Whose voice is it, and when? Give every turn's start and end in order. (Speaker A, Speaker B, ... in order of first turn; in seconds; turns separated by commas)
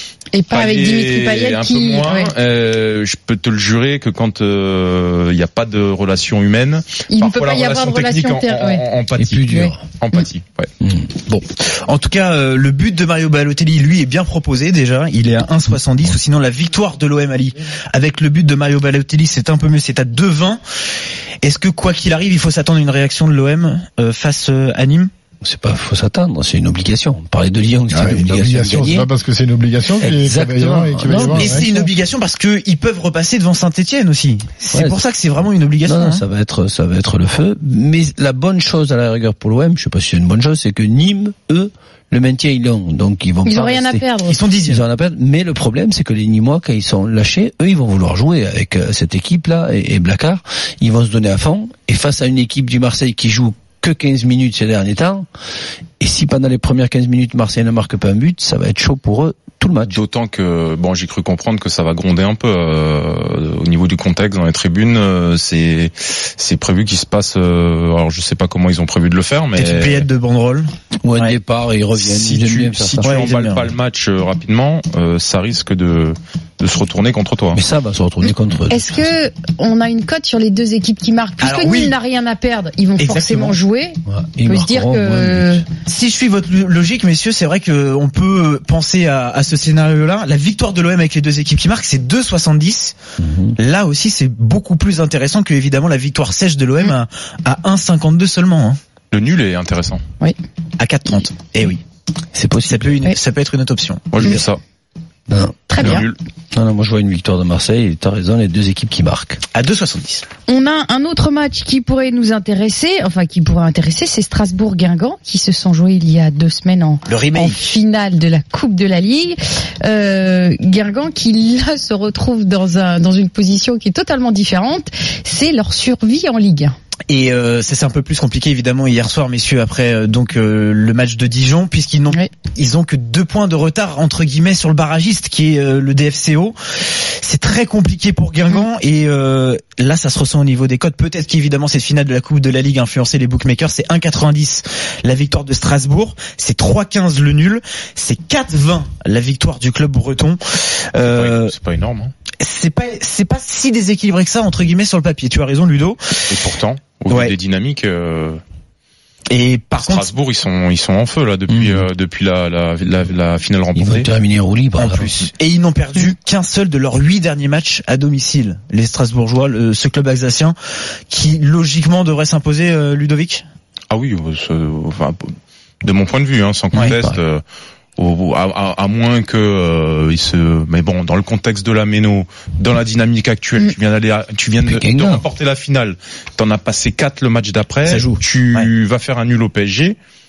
Speaker A: 0.3-2.3, Speaker B: 0.5-9.4, Speaker A: 7.1-8.8, Speaker C: 9.2-9.8, Speaker A: 9.5-9.7, Speaker B: 10.0-10.7, Speaker C: 10.8-11.1, Speaker D: 11.3-20.6, Speaker D: 21.4-25.1, Speaker C: 25.4-29.1, Speaker E: 27.9-31.7, Speaker C: 30.0-31.9, Speaker D: 31.2-36.2, Speaker C: 34.7-35.0, Speaker C: 35.9-44.0, Speaker A: 43.4-44.4, Speaker D: 44.2-44.8, Speaker C: 44.6-55.3, Speaker C: 56.0-60.0, Speaker B: 59.9-70.1, Speaker D: 69.5-71.4, Speaker C: 71.0-73.1, Speaker B: 71.9-77.6, Speaker D: 73.0-73.7, Speaker C: 77.5-79.1, Speaker A: 78.7-85.7, Speaker D: 81.4-81.9, Speaker D: 83.0-83.6, Speaker C: 84.0-85.6, Speaker D: 85.8-93.0, Speaker C: 93.2-93.5, Speaker D: 93.6-98.8, Speaker B: 99.1-100.0, Speaker D: 100.8-101.8, Speaker C: 102.3-103.0, Speaker D: 102.6-104.4, Speaker B: 104.1-104.6, Speaker C: 105.3-109.4, Speaker A: 105.7-106.1, Speaker B: 105.8-106.2, Speaker D: 109.5-110.2, Speaker A: 110.5-126.7, Speaker D: 117.1-117.8, Speaker D: 127.1-151.5, Speaker B: 151.0-152.1, Speaker D: 152.4-156.4, Speaker B: 156.3-158.4, Speaker D: 157.1-157.3, Speaker D: 159.3-160.1, Speaker B: 159.8-164.1, Speaker C: 161.5-161.9, Speaker C: 163.7-165.2, Speaker D: 164.8-170.5, Speaker D: 171.1-173.4, Speaker B: 173.9-175.3, Speaker B: 175.8-177.4, Speaker C: 176.7-177.2, Speaker B: 178.0-190.0, Speaker C: 184.6-185.3, Speaker D: 187.8-188.7